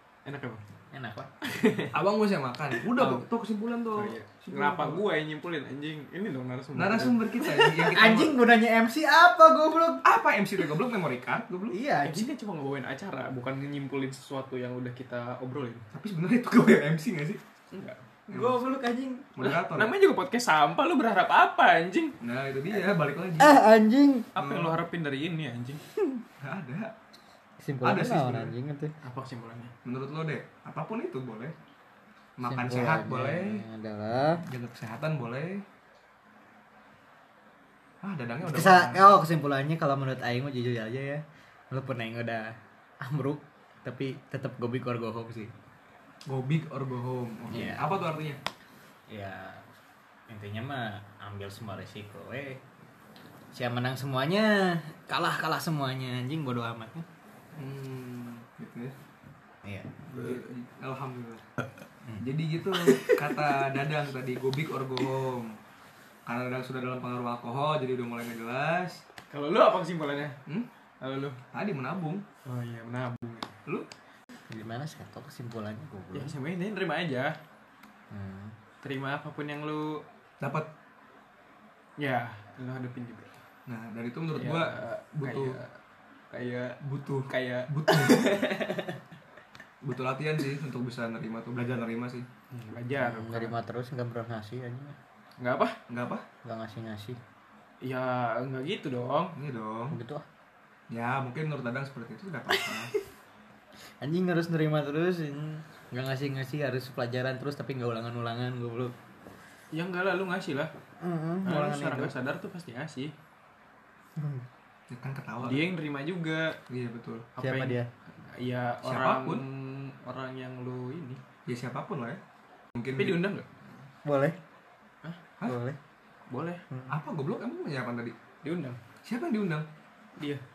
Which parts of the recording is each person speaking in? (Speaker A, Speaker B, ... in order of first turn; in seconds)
Speaker A: 0.2-0.6, 1.4-2.0, 2.8-3.2, 3.9-7.3, 12.1-15.9, 17.7-18.0, 19.4-22.2, 24.3-25.8, 29.0-29.7, 62.9-63.2, 69.3-70.4, 71.0-71.4, 72.4-73.6, 76.1-77.4, 78.8-80.0, 82.0-83.4, 84.3-85.8, 86.3-89.0, 92.5-93.5, 95.4-95.8, 97.8-99.3, 109.7-110.7, 111.4-113.1, 115.4-116.6, 117.4-121.2, 122.9-123.5, 126.3-126.6, 128.4-128.8
Speaker B: 0.9-1.4, 7.6-10.1, 11.7-12.3, 18.3-19.3, 23.4-24.3, 27.6-28.9, 32.5-34.4, 38.4-45.5, 47.5-47.9, 49.1-49.6, 50.3-52.6, 53.5-57.0, 59.6-59.9, 74.5-76.3, 78.1-78.5, 93.0-95.0, 96.4-97.2, 99.9-100.3, 104.0-108.9, 111.0-112.1, 114.2-114.4, 117.4-117.9, 124.0-124.4, 125.4-125.8
Speaker C: 1.9-5.0, 6.7-8.4, 10.0-11.8, 15.9-17.4, 18.3-18.6, 19.3-19.9, 22.2-23.6, 24.4-24.7, 26.4-26.9, 27.8-28.5, 29.8-31.6, 32.4-33.6, 34.4-35.6, 38.0-39.0, 46.3-48.4, 57.5-59.0, 60.1-61.4, 62.2-65.6, 66.3-69.0, 71.5-72.2, 80.4-80.7, 83.7-85.6, 86.8-88.3, 89.8-92.3, 95.9-96.3, 99.4-100.0, 100.9-102.9, 114.9-115.7, 116.7-117.3, 118.8-119.4, 121.5-122.2, 122.8-123.2, 126.9-128.2, 129.0-129.7